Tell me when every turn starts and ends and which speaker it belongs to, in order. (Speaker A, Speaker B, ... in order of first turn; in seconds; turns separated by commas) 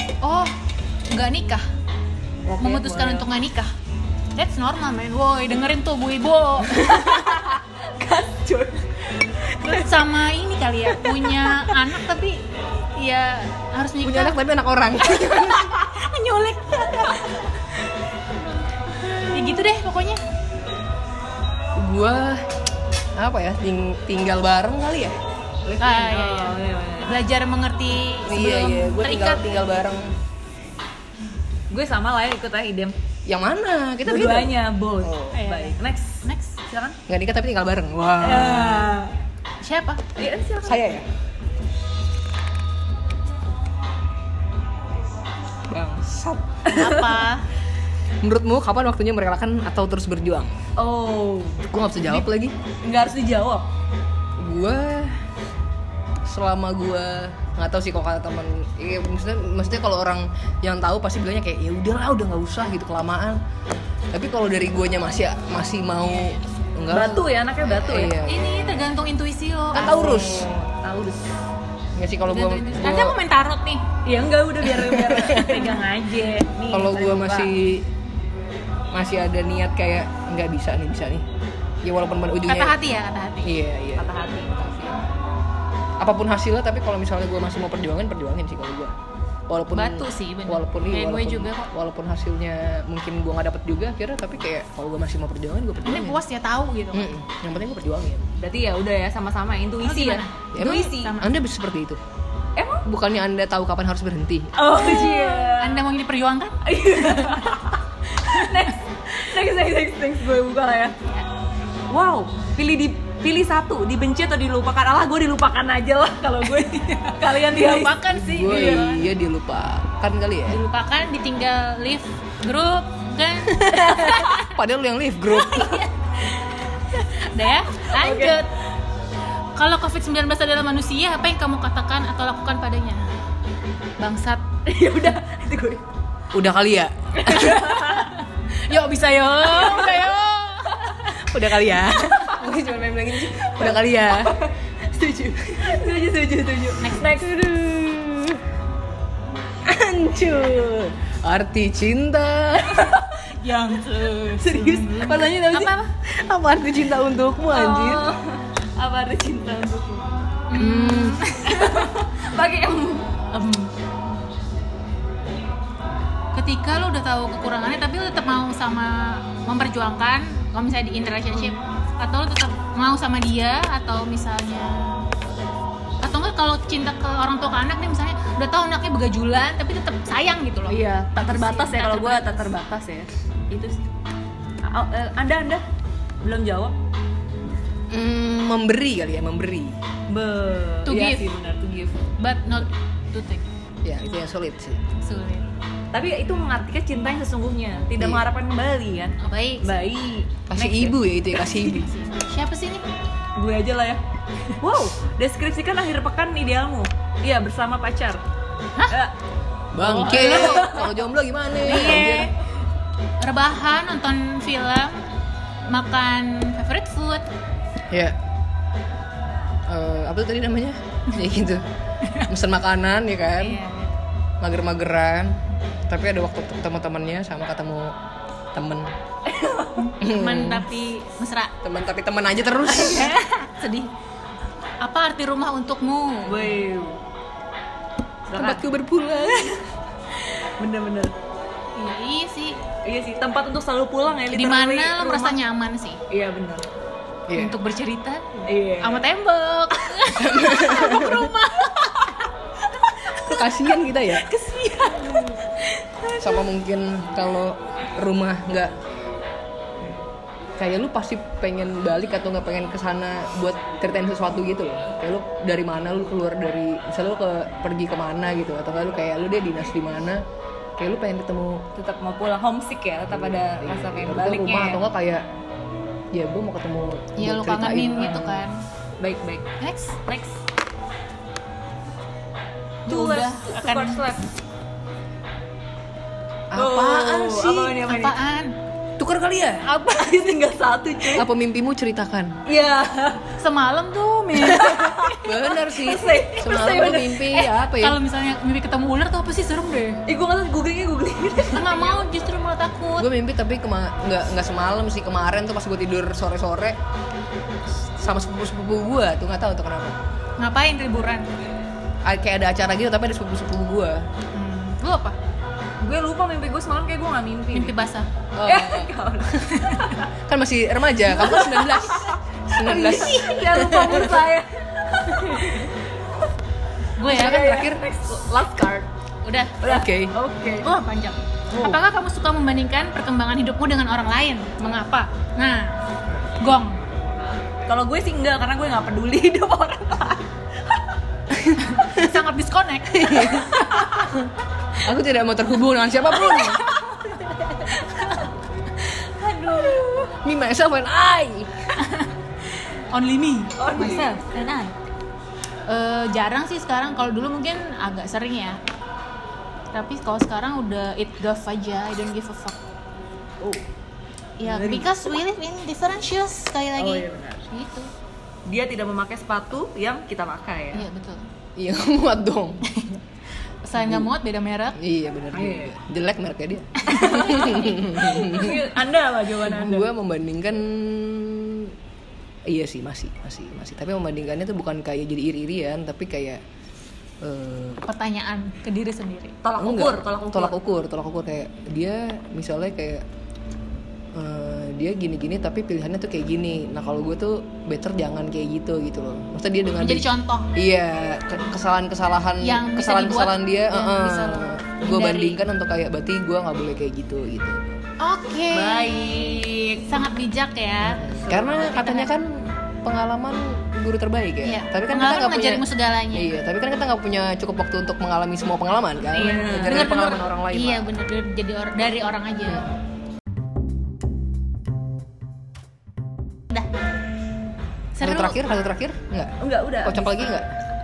Speaker A: 0.2-0.6, Speaker A: 1.1-1.7, Speaker B: 2.5-3.2, Speaker A: 2.6-3.7, Speaker A: 4.4-7.3, Speaker B: 6.7-10.1, Speaker A: 9.7-14.4, Speaker B: 10.9-11.9, Speaker C: 14.0-15.8, Speaker A: 15.1-17.4, Speaker A: 19.3-20.2, Speaker C: 21.8-22.5, Speaker C: 23.1-25.2, Speaker B: 25.6-27.1, Speaker A: 25.8-29.5, Speaker C: 28.3-30.1, Speaker B: 31.7-33.0, Speaker C: 33.3-35.4, Speaker B: 34.0-37.0, Speaker A: 35.3-36.6, Speaker C: 37.1-38.9, Speaker B: 38.2-39.1, Speaker A: 39.6-40.0, Speaker B: 40.2-40.9, Speaker C: 40.6-41.1, Speaker C: 45.7-46.8, Speaker B: 46.7-47.2, Speaker A: 46.7-47.5, Speaker C: 48.2-50.5, Speaker B: 50.8-51.6, Speaker C: 51.7-52.6, Speaker B: 52.8-53.7, Speaker C: 54.4-55.2, Speaker C: 56.2-63.4, Speaker C: 64.1-68.8, Speaker B: 66.9-68.2, Speaker A: 68.2-70.1, Speaker C: 69.7-70.6, Speaker B: 69.7-71.2, Speaker C: 72.0-73.2, Speaker A: 72.3-73.9, Speaker B: 74.0-77.5, Speaker C: 74.6-75.7, Speaker C: 76.7-77.9, Speaker C: 78.9-81.3, Speaker C: 81.8-82.8, Speaker A: 82.5-83.6, Speaker C: 83.4-84.1, Speaker B: 84.0-85.0, Speaker C: 86.0-88.9, Speaker C: 89.5-96.2, Speaker A: 89.7-91.7, Speaker A: 95.8-97.1, Speaker C: 96.9-98.3, Speaker B: 98.4-101.2, Speaker A: 99.8-101.3, Speaker C: 100.5-102.0, Speaker B: 102.6-102.8, Speaker C: 102.8-104.6, Speaker B: 104.6-105.8, Speaker A: 104.8-107.4, Speaker B: 106.7-111.0, Speaker A: 108.2-108.7, Speaker B: 111.9-119.0, Speaker A: 116.7-119.1, Speaker C: 118.1-120.6, Speaker A: 120.5-124.5, Speaker C: 123.5-125.8, Speaker A: 125.5-125.8, Speaker A: 126.9-128.5, Speaker B: 127.8-128.4, Speaker A: 129.6-133.1, Speaker A: 134.0-134.5, Speaker B: 134.7-135.8, Speaker C: 136.3-137.7, Speaker B: 137.2-138.1, Speaker A: 137.4-141.3, Speaker B: 139.5-139.9, Speaker C: 141.2-144.4, Speaker B: 143.6-148.2, Speaker A: 146.8-147.2, Speaker C: 147.2-148.3, Speaker C: 149.6-153.0, Speaker A: 153.4-155.9, Speaker B: 154.4-155.5, Speaker C: 154.7-158.1, Speaker B: 157.5-160.1, Speaker A: 160.5-161.9, Speaker C: 160.6-161.2, Speaker B: 161.4-163.7, Speaker A: 166.3-175.1, Speaker A: 176.0-182.3, Speaker B: 180.7-183.9, Speaker B: 184.6-185.6, Speaker B: 186.2-186.8, Speaker C: 187.9-189.8, Speaker B: 190.1-192.0, Speaker A: 190.9-191.3, Speaker A: 192.2-193.5, Speaker C: 193.8-194.8, Speaker A: 195.0-195.5, Speaker B: 195.9-201.8, Speaker C: 198.0-198.2, Speaker A: 199.2-199.7, Speaker C: 200.5-201.9, Speaker A: 201.7-202.8, Speaker B: 203.4-204.0, Speaker B: 204.6-208.2, Speaker C: 209.7-212.3, Speaker A: 209.8-210.8, Speaker B: 210.0-211.0, Speaker A: 211.6-212.3, Speaker A: 213.2-215.0, Speaker A: 215.7-217.3, Speaker C: 217.9-218.2, Speaker C: 219.7-221.7, Speaker C: 222.3-223.6, Speaker A: 223.4-223.9, Speaker C: 224.4-228.0, Speaker C: 228.5-228.9, Speaker B: 229.2-229.9, Speaker A: 229.8-231.5, Speaker C: 230.0-230.7, Speaker C: 231.6-233.2, Speaker A: 232.7-233.9, Speaker B: 232.8-233.3, Speaker A: 234.8-236.6, Speaker B: 236.3-237.0, Speaker B: 238.3-238.7, Speaker C: 238.3-239.6, Speaker B: 239.3-239.5, Speaker B: 240.2-241.2, Speaker A: 241.8-242.6, Speaker B: 242.8-245.4, Speaker A: 244.3-246.0, Speaker B: 246.1-246.7, Speaker C: 247.3-247.6, Speaker A: 247.3-252.3, Speaker B: 248.5-249.1, Speaker C: 250.2-251.3, Speaker A: 253.1-253.5, Speaker C: 253.2-254.3, Speaker A: 254.2-255.6, Speaker B: 254.9-255.2, Speaker C: 256.2-258.7, Speaker C: 260.6-270.2, Speaker C: 270.8-271.7, Speaker B: 271.8-274.8, Speaker C: 273.1-275.2, Speaker C: 276.1-278.5, Speaker A: 277.2-278.6, Speaker B: 279.0-279.5, Speaker A: 279.6-280.0, Speaker B: 280.1-280.4, Speaker A: 282.9-284.0, Speaker B: 282.9-284.3, Speaker C: 286.5-287.7, Speaker B: 286.6-288.2, Speaker A: 287.5-288.6, Speaker C: 289.0-289.7, Speaker B: 289.7-291.3, Speaker C: 291.1-292.4, Speaker B: 292.5-293.3, Speaker A: 293.4-295.5, Speaker B: 294.4-297.5, Speaker C: 295.2-298.0, Speaker A: 297.4-300.0, Speaker B: 300.1-302.1, Speaker A: 301.5-303.1, Speaker C: 303.0-306.8, Speaker C: 307.7-310.0, Speaker A: 310.4-311.3, Speaker C: 312.1-314.0, Speaker A: 314.4-315.2, Speaker B: 315.8-317.8, Speaker A: 317.5-318.1, Speaker C: 318.4-318.9, Speaker B: 318.4-320.1, Speaker A: 319.6-319.9, Speaker C: 320.1-324.2, Speaker B: 321.1-325.8, Speaker A: 327.0-327.5, Speaker C: 327.1-327.9, Speaker B: 327.1-328.9, Speaker A: 329.2-329.7, Speaker B: 329.6-330.7, Speaker C: 329.7-330.1, Speaker A: 330.6-335.8, Speaker B: 331.5-331.8, Speaker A: 336.4-336.8, Speaker B: 337.7-340.2, Speaker C: 341.3-342.1, Speaker A: 341.6-344.0, Speaker C: 342.9-346.6, Speaker B: 346.3-348.2, Speaker A: 347.1-348.3, Speaker B: 348.9-350.1, Speaker A: 349.5-349.8, Speaker C: 350.2-351.5, Speaker A: 351.8-352.1, Speaker A: 352.9-354.7, Speaker B: 353.6-354.2, Speaker A: 355.7-358.6, Speaker A: 359.7-362.6, Speaker A: 364.4-367.9, Speaker B: 364.4-365.2, Speaker B: 366.8-367.5, Speaker B: 368.5-370.9, Speaker A: 370.7-371.2, Speaker C: 371.6-372.6, Speaker A: 372.7-373.0, Speaker A: 373.6-374.8, Speaker C: 373.8-374.1, Speaker C: 374.8-378.6, Speaker B: 375.3-375.7, Speaker A: 376.8-377.9, Speaker B: 376.9-379.9, Speaker C: 379.4-381.7, Speaker C: 382.5-386.4, Speaker C: 387.2-387.8, Speaker A: 387.9-389.4, Speaker B: 389.4-390.5, Speaker C: 389.6-393.1, Speaker C: 394.1-407.8, Speaker A: 399.8-400.5, Speaker A: 402.4-405.4, Speaker A: 408.0-412.1, Speaker B: 408.5-410.0, Speaker C: 410.8-421.0, Speaker B: 411.2-411.8, Speaker A: 414.4-416.3, Speaker A: 419.1-422.7, Speaker B: 419.2-420.1, Speaker A: 428.0-428.4, Speaker C: 428.0-430.5, Speaker B: 429.4-430.4